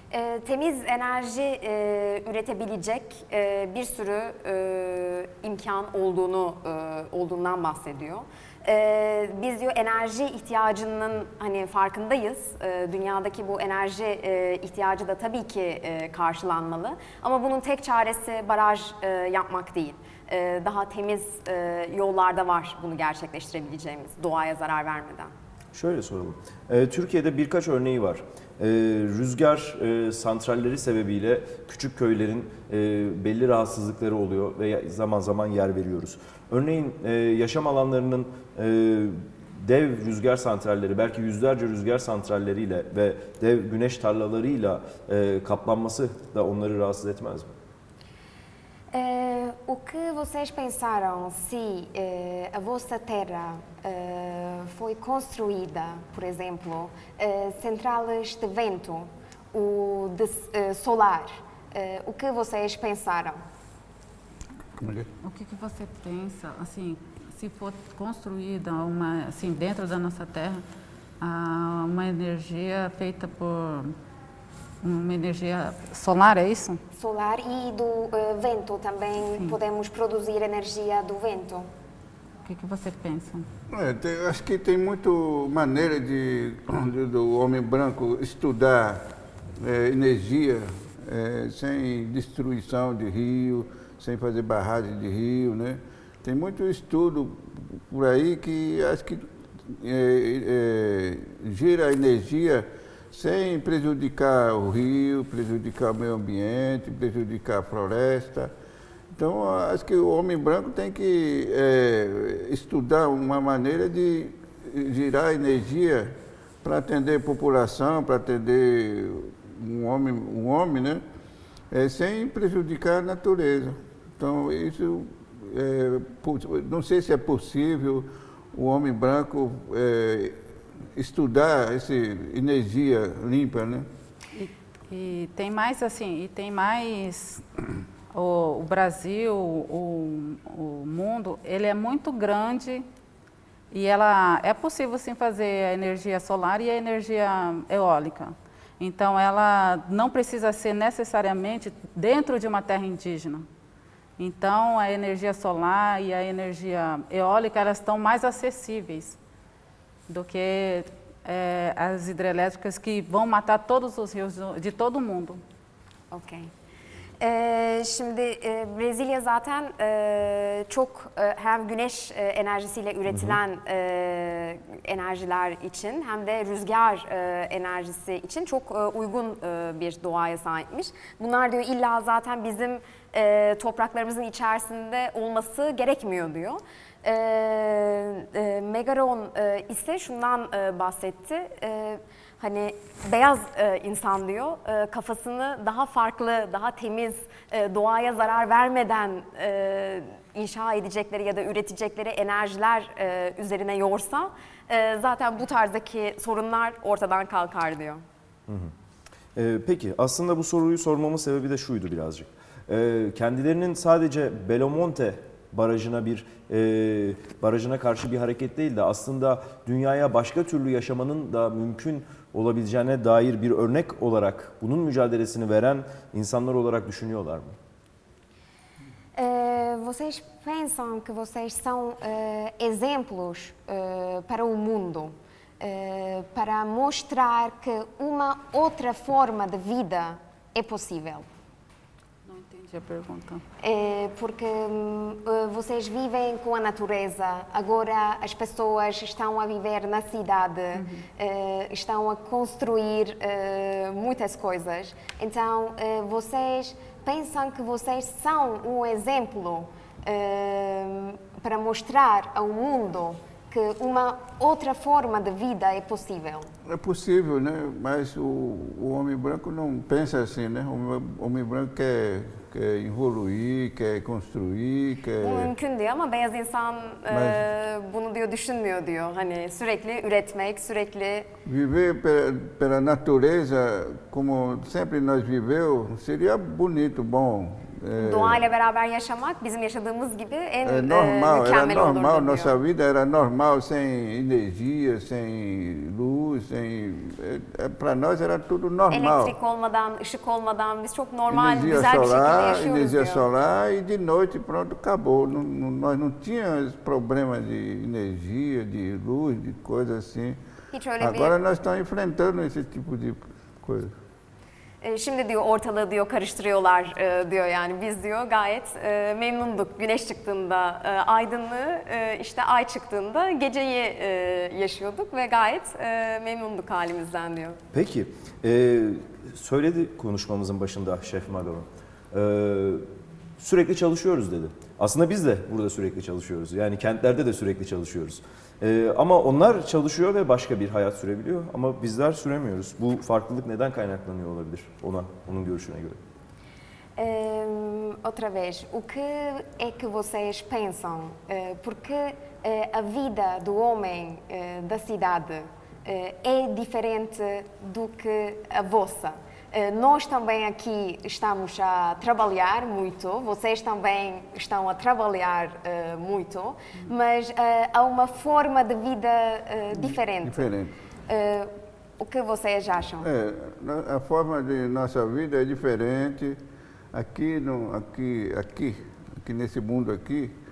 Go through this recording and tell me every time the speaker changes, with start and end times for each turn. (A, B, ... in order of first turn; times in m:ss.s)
0:00.1-0:25.3 A
0:25.7-0:47.5 B
0:48.9-1:03.4 A
1:04.8-1:05.1 C
1:05.2-1:10.6 D
1:11.2-1:14.0 D
1:14.8-1:16.8 D
1:17.0-1:21.7 A
1:22.4-1:23.5 D
1:23.7-1:29.0 C
1:29.6-1:48.5 C
1:49.1-2:01.0 C
2:01.7-2:10.4 C
2:11.0-2:13.9 C
2:14.3-2:17.4 D
2:18.1-2:22.9 D
2:23.7-2:33.5 D
2:34.2-2:39.2 D
2:40.1-2:45.4 D
2:46.1-2:46.5 A
2:47.2-3:28.0 A
3:28.5-3:28.7 B
3:29.4-3:47.6 B
3:49.2-4:01.3 A
4:02.3-4:03.4 D
4:03.6-4:26.5 A
4:10.8-4:11.0 D
4:26.6-4:35.5 C
4:35.2-4:41.3 A
4:37.1-4:37.4 C
4:41.4-4:48.4 C
4:48.0-4:52.5 A
4:50.6-4:59.4 C
4:58.9-5:03.2 A
5:01.3-5:10.4 C
5:10.7-5:11.3 A
5:11.0-5:14.0 C
5:14.8-5:27.6 A
5:27.7-5:32.8 B
5:33.4-5:46.0 B
5:47.0-6:10.5 A
6:09.7-6:10.8 C
6:11.1-6:13.1 A
6:13.0-6:16.4 C
6:16.9-6:20.4 C